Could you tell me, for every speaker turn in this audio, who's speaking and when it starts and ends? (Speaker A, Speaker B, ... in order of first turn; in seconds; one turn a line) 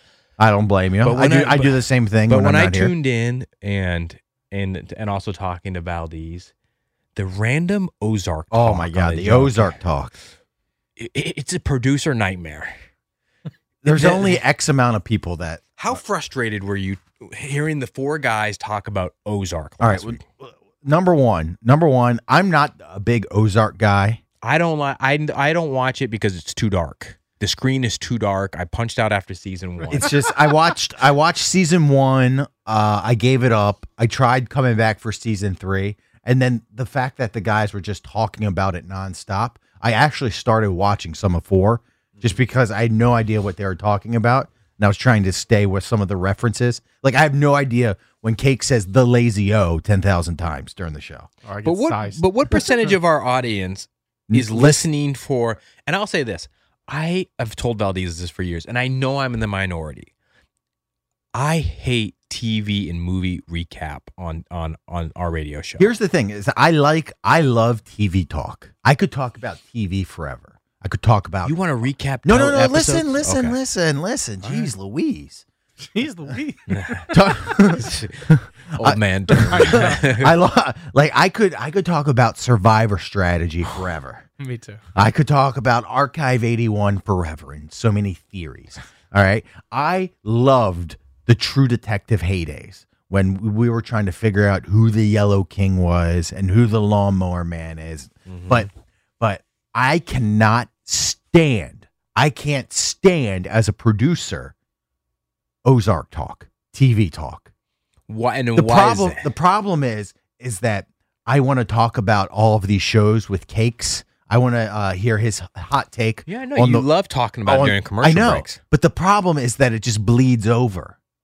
Speaker A: 0.4-2.9
Speaker B: 1.0-6.5
Speaker B: 7.1-9.7
Speaker A: 8.5-10.1
Speaker B: 11.0-12.7
Speaker A: 13.8-16.0
Speaker B: 13.9-14.4
Speaker B: 15.8-20.2
Speaker A: 19.8-24.2
Speaker B: 24.4-30.1
Speaker A: 29.9-51.3
Speaker C: 51.4-52.2
Speaker B: 51.6-60.1
Speaker A: 54.3-54.8
Speaker B: 61.3-65.9
Speaker A: 65.8-71.6
Speaker B: 71.4-73.6
Speaker A: 72.2-75.4
Speaker C: 75.9-77.0
Speaker B: 76.7-80.3
Speaker A: 77.1-84.2
Speaker C: 79.5-79.8
Speaker C: 84.4-84.8
Speaker A: 85.0-104.5
Speaker B: 98.3-98.7
Speaker A: 105.6-107.5
Speaker B: 108.1-109.3
Speaker A: 108.5-116.9
Speaker B: 116.3-118.6
Speaker A: 117.4-121.0